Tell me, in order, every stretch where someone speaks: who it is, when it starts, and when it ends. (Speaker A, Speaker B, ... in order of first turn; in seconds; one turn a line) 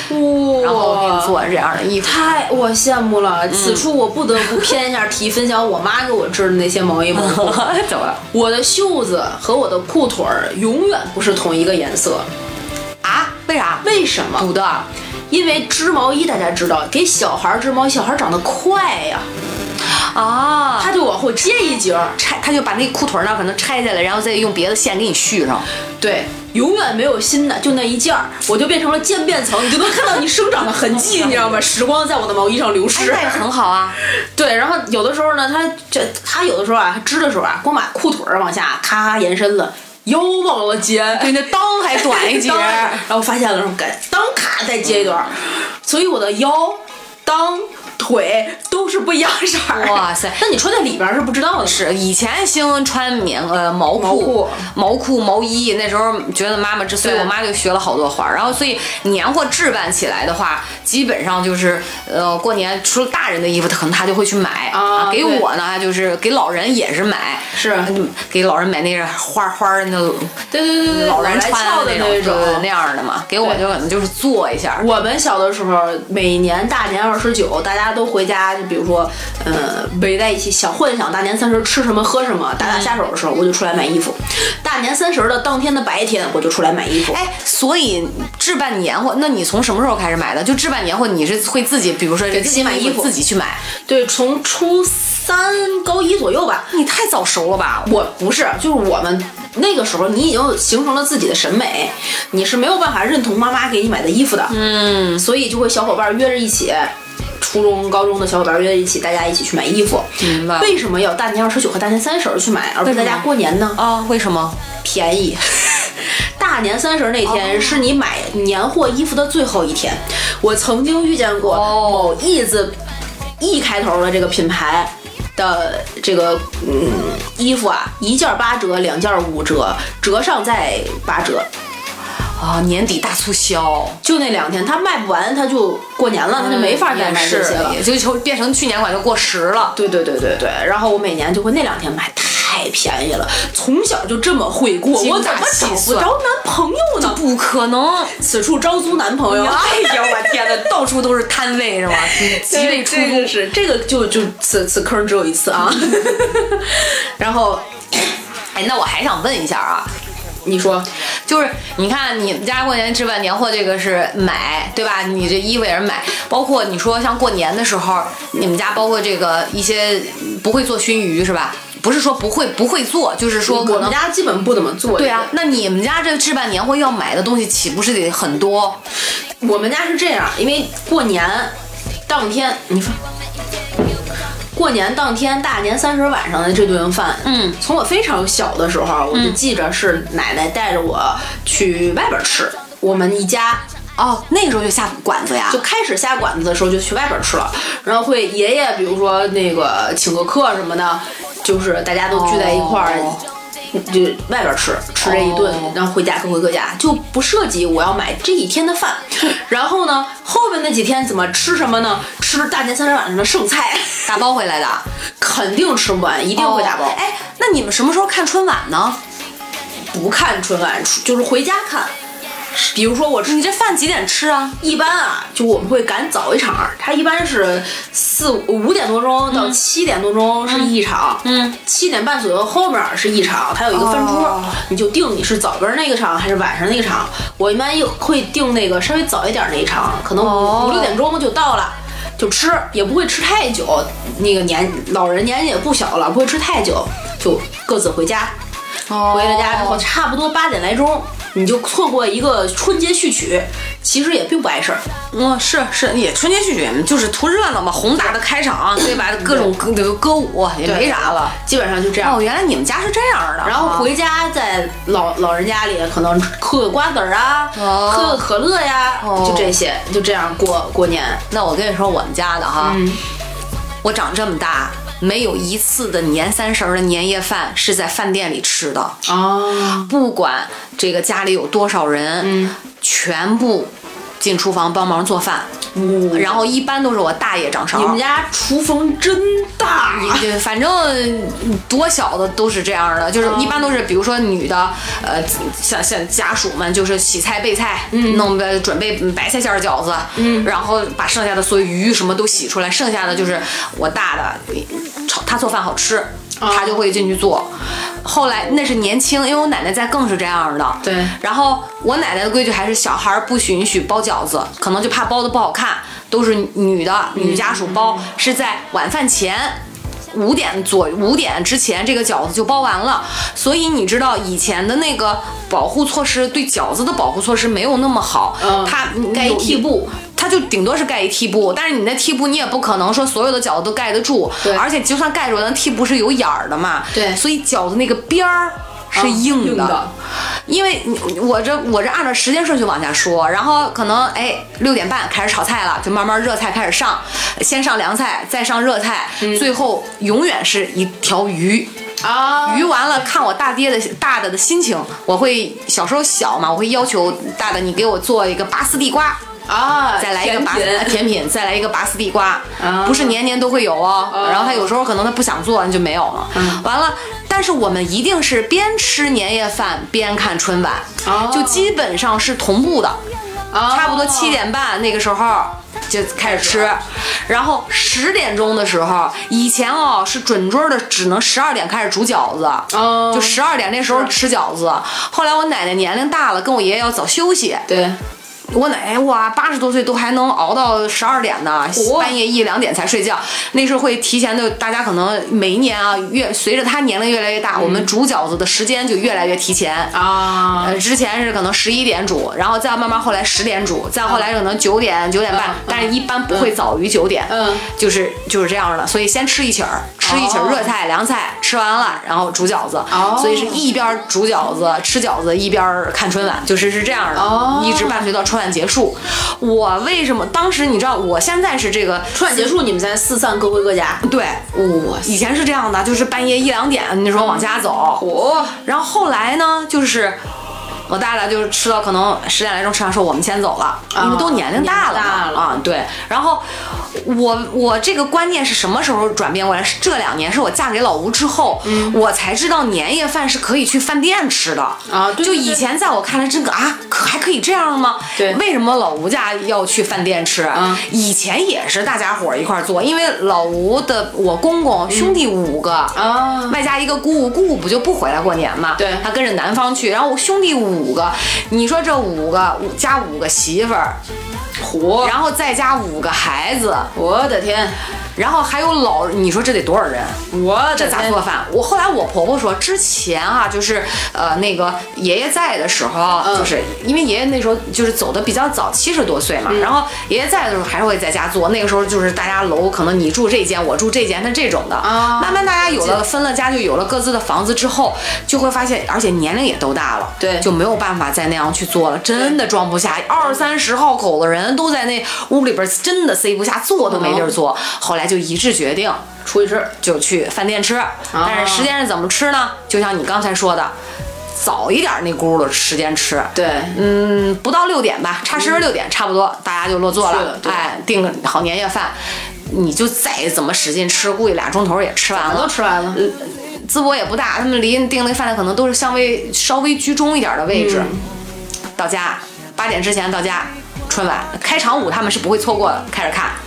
Speaker A: 0.1-1.4
Speaker B: 0.6-2.2
Speaker A: 2.0-7.6
Speaker B: 3.5-3.9
Speaker B: 4.4-4.7
Speaker B: 7.1-8.2
Speaker A: 8.3-12.3
Speaker B: 13.0-13.8
Speaker A: 13.8-14.5
Speaker B: 14.3-14.9
Speaker A: 15.3-19.3
Speaker B: 19.9-20.9
Speaker A: 20.8-22.2
Speaker B: 22.2-25.6
Speaker A: 26.0-33.4
Speaker B: 32.9-34.0
Speaker A: 34.0-41.4
Speaker B: 41.1-43.0
Speaker A: 41.9-51.8
Speaker B: 49.7-50.4
Speaker B: 51.6-74.9
Speaker A: 53.9-54.7
Speaker A: 57.0-57.3
Speaker A: 64.7-65.5
Speaker A: 67.5-67.9
Speaker A: 70.5-72.7
Speaker A: 74.8-87.2
Speaker B: 82.6-82.9
Speaker B: 87.1-93.6
Speaker A: 92.3-93.1
Speaker A: 93.9-96.7
Speaker B: 96.7-97.9
Speaker A: 97.8-104.6
Speaker B: 104.5-105.2
Speaker A: 105.1-113.8
Speaker B: 110.2-110.8
Speaker B: 112.8-114.6
Speaker A: 114.8-122.8
Speaker B: 117.2-117.9
Speaker B: 121.4-122.2
Speaker A: 123.4-131.5
Speaker B: 132.4-134.0
Speaker A: 134.0-137.8
Speaker B: 136.4-139.7
Speaker A: 139.7-147.2
Speaker B: 144.9-146.1
Speaker B: 147.0-148.1
Speaker A: 148.2-150.6
Speaker B: 149.3-153.3
Speaker A: 152.0-157.6
Speaker B: 158.5-159.9
Speaker A: 160.4-160.9
Speaker B: 161.2-174.0
Speaker A: 173.4-175.3
Speaker B: 174.9-178.8
Speaker A: 179.4-181.5
Speaker A: 182.1-183.0
Speaker A: 184.5-193.6
Speaker B: 187.2-187.6
Speaker B: 189.1-189.4
Speaker B: 194.0-195.6
Speaker A: 195.5-203.2
Speaker B: 202.1-203.2
Speaker A: 203.7-214.2
Speaker B: 205.0-205.8
Speaker B: 214.1-214.8
Speaker A: 215.2-217.0
Speaker B: 216.3-219.0
Speaker A: 219.9-221.9
Speaker A: 222.7-223.4
Speaker B: 223.2-224.6
Speaker A: 224.6-248.3
Speaker B: 229.3-229.6
Speaker B: 230.5-231.6
Speaker B: 233.7-234.6
Speaker B: 240.1-241.0
Speaker B: 248.9-249.8
Speaker A: 249.1-254.8
Speaker B: 255.1-261.3
Speaker A: 259.2-259.5
Speaker A: 260.6-262.2
Speaker B: 262.0-263.9
Speaker A: 263.4-271.2
Speaker B: 267.5-268.2
Speaker B: 269.0-269.6
Speaker B: 271.3-272.8
Speaker A: 272.6-273.0
Speaker B: 273.8-278.9
Speaker A: 279.1-279.9
Speaker B: 279.8-285.5
Speaker A: 282.2-282.6
Speaker A: 285.7-286.4
Speaker B: 286.1-288.0
Speaker A: 287.7-290.3
Speaker B: 289.9-307.5
Speaker A: 293.2-293.6
Speaker A: 297.9-298.3
Speaker A: 300.1-300.5
Speaker A: 306.4-306.8
Speaker B: 308.0-319.6
Speaker A: 310.8-311.1
Speaker A: 317.1-318.1
Speaker B: 320.1-339.8
Speaker A: 328.4-329.9
Speaker A: 336.9-337.2
Speaker A: 338.9-339.9
Speaker B: 340.5-351.7
Speaker A: 349.2-349.5
Speaker A: 352.0-352.7
Speaker B: 352.4-359.2
Speaker A: 359.5-361.0
Speaker B: 360.0-373.0
Speaker A: 362.6-363.2
Speaker A: 364.1-364.7
Speaker A: 366.3-366.6
Speaker A: 371.0-371.7
Speaker A: 373.5-374.4
Speaker B: 373.7-387.6
Speaker A: 376.2-376.7
Speaker A: 382.7-384.1
Speaker A: 387.7-388.0
Speaker B: 388.5-422.5
Speaker A: 391.7-392.1
Speaker A: 397.5-397.9
Speaker A: 399.9-400.8
Speaker A: 405.3-406.5
Speaker A: 407.3-407.6
Speaker A: 410.0-410.7
Speaker A: 412.9-413.6
Speaker A: 417.1-418.1
Speaker A: 422.1-424.0
Speaker B: 424.0-428.0
Speaker A: 427.1-428.6
Speaker B: 428.6-430.2
Speaker B: 430.9-456.0
Speaker A: 433.9-435.5
Speaker A: 441.6-442.0
Speaker A: 444.9-445.6
Speaker A: 450.5-450.8
Speaker A: 454.9-455.2
Speaker A: 455.9-456.6
Speaker B: 456.5-464.0
Speaker A: 458.8-459.0
Speaker A: 464.6-465.1
Speaker B: 465.0-466.9
Speaker A: 466.9-467.8
Speaker B: 468.1-470.2
Speaker A: 470.3-471.2
Speaker B: 470.7-499.0
Speaker A: 476.2-476.5
Speaker A: 479.5-479.7
Speaker A: 484.8-486.0
Speaker A: 490.2-490.5
Speaker A: 496.8-497.3
Speaker A: 499.2-499.7
Speaker B: 499.8-503.7
Speaker A: 501.1-501.7
Speaker B: 504.4-511.9
Speaker A: 506.3-506.8
Speaker A: 508.3-508.6
Speaker A: 510.0-510.6
Speaker B: 512.5-520.9
Speaker A: 515.1-516.0
Speaker A: 520.5-521.0
Speaker B: 521.8-526.4